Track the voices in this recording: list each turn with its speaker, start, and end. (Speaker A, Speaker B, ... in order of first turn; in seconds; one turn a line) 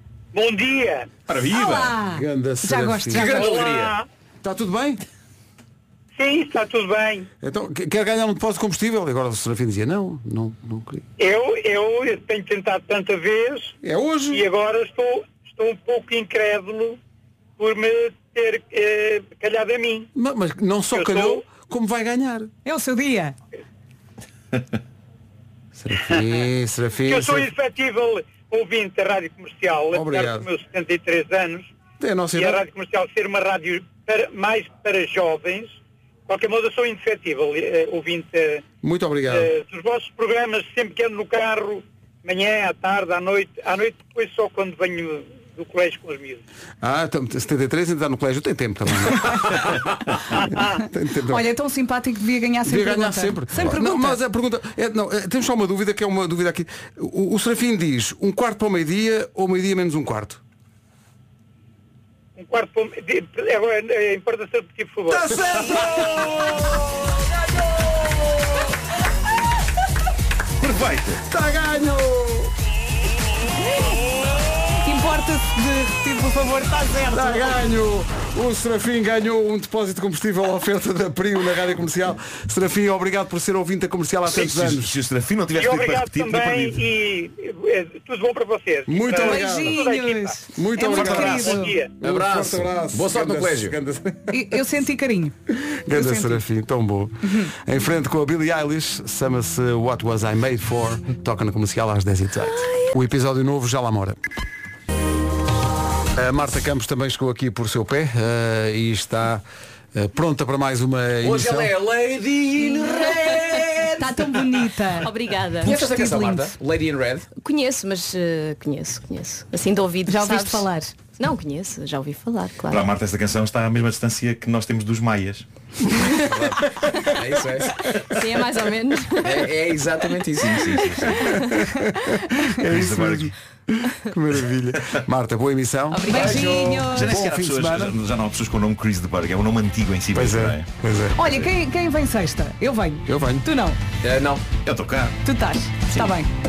Speaker A: 0.3-1.1
Speaker B: 1.3-1.9
Speaker C: 1.4-3.4
Speaker D: 2.1-3.5
Speaker E: 3.1-4.0
Speaker A: 3.3-4.1
Speaker D: 4.4-5.0
Speaker A: 6.2-7.3
Speaker D: 7.4-11.0
Speaker A: 11.2-13.8
Speaker D: 13.8-14.4
Speaker A: 14.3-17.0
Speaker A: 17.6-20.1
Speaker D: 20.1-22.5
Speaker A: 20.9-21.5
Speaker C: 22.6-23.4
Speaker D: 25.8-27.5
Speaker A: 27.1-31.7
Speaker D: 29.9-30.5
Speaker D: 32.0-32.6
Speaker A: 32.3-38.6
Speaker D: 38.8-39.5
Speaker A: 39.3-46.4
Speaker D: 46.8-49.6
Speaker A: 50.4-50.8
Speaker D: 50.4-51.5
Speaker C: 51.3-54.2
Speaker D: 52.7-60.4
Speaker A: 62.4-65.3
Speaker D: 65.1-66.3
Speaker B: 65.7-66.7
Speaker B: 70.6-71.2
Speaker D: 71.3-72.5
Speaker C: 74.8-77.6
Speaker D: 77.1-84.9
Speaker B: 84.3-86.8
Speaker A: 85.5-91.9
Speaker D: 88.9-89.9
Speaker C: 89.2-91.8
Speaker D: 90.5-94.4
Speaker E: 92.0-93.8
Speaker C: 94.3-95.3
Speaker D: 95.9-104.2
Speaker C: 95.9-96.4
Speaker D: 106.2-109.4
Speaker D: 110.0-111.7
Speaker E: 111.2-114.4
Speaker F: 113.0-113.5
Speaker C: 114.0-116.6
Speaker F: 115.0-115.7
Speaker E: 115.6-117.3
Speaker F: 117.4-122.9
Speaker C: 120.1-121.0
Speaker B: 122.7-125.4
Speaker E: 126.1-128.0
Speaker F: 128.1-129.5
Speaker E: 129.2-131.2
Speaker B: 130.6-131.3
Speaker D: 131.2-137.9
Speaker B: 132.7-133.3
Speaker F: 135.9-136.7
Speaker C: 136.0-137.2
Speaker B: 136.1-140.7
Speaker D: 140.1-141.2
Speaker C: 141.2-143.8
Speaker D: 143.1-143.5
Speaker E: 144.0-144.4
Speaker B: 144.6-145.2
Speaker C: 145.2-146.3